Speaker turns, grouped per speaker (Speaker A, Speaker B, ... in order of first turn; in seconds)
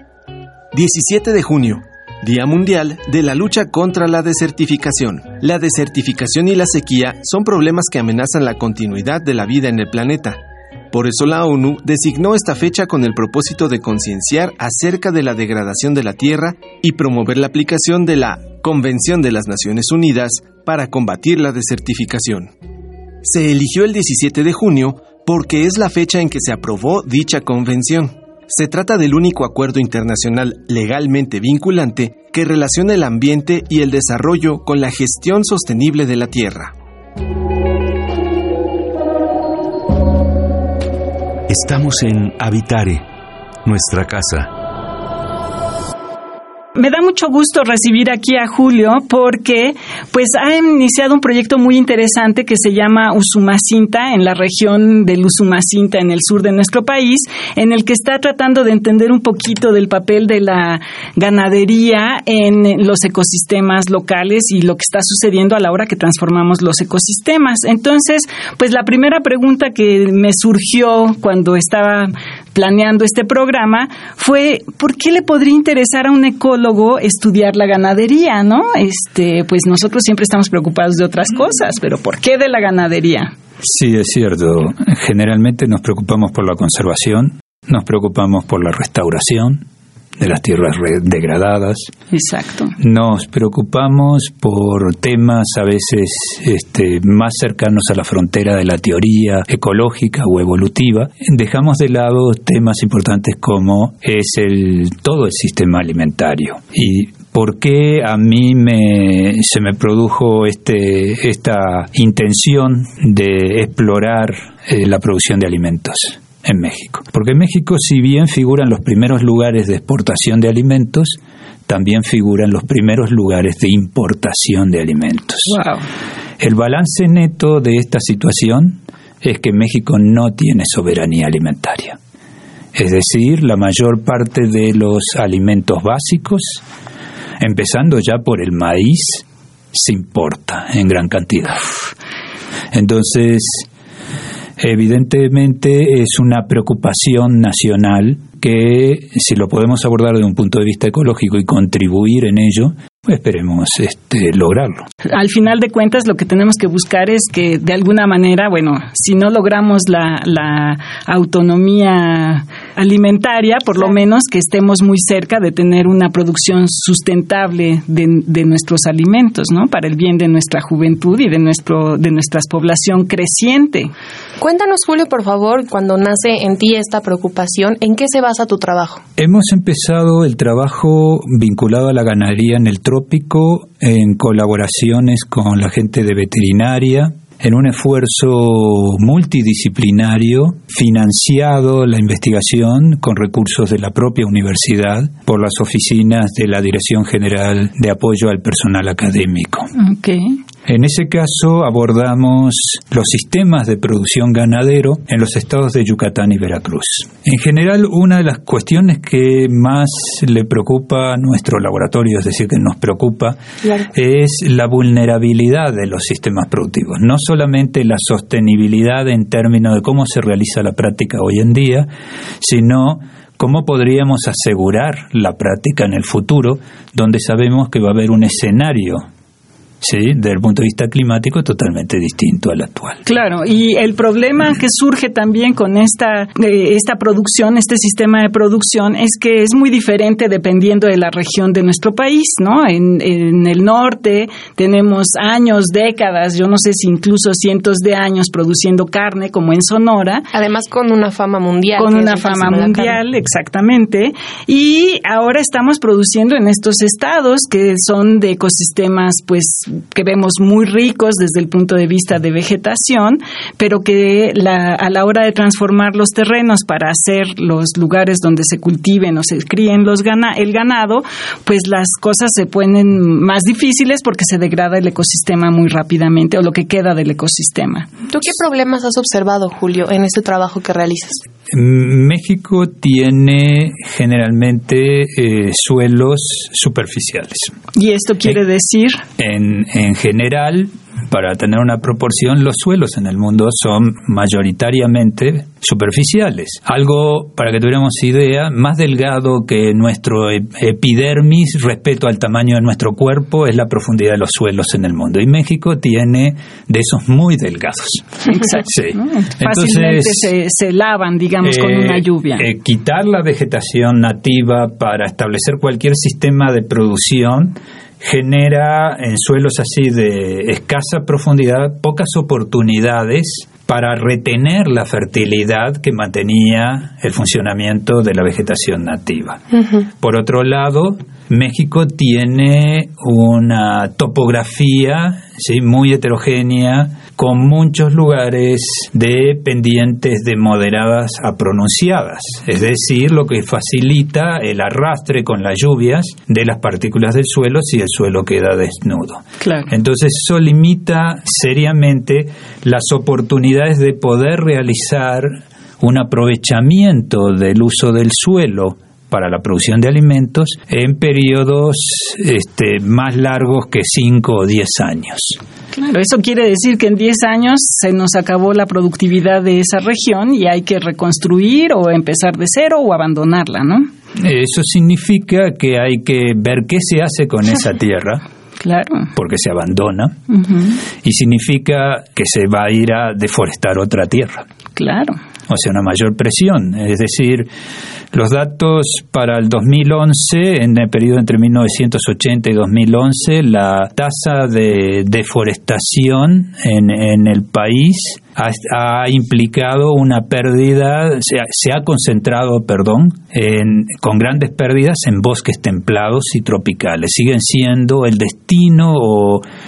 Speaker A: 0.7-22.5, 23.2-36.7
Speaker B: 41.5-43.1, 43.6-44.5
Speaker C: 46.8-83.3, 92.1-92.8, 125.5-125.8, 155.1-173.9, 199.8-200.4, 233.1-250.3, 251.8-277.9, 287.8-289.0, 308.3-312.5, 349.4-349.7, 365.7-373.9, 378.6-379.1, 380.3-380.8, 384.8-385.2
Speaker D: 83.6-89.7, 90.2-91.9, 92.8-125.6, 126.4-132.0, 132.7-136.6, 137.4-141.7, 142.7-143.7, 144.6-154.9, 179.2-199.7, 200.7-213.4, 213.9-221.9, 222.4-229.1, 229.8-233.0, 281.5-287.5, 289.2-310.3, 311.4-329.4, 330.0-365.4, 374.1-378.2, 379.1-380.2, 381.0-384.4, 385.5-387.5, 388.1-409.5
Speaker E: 174.4-179.0, 250.3-253.0, 278.1-281.2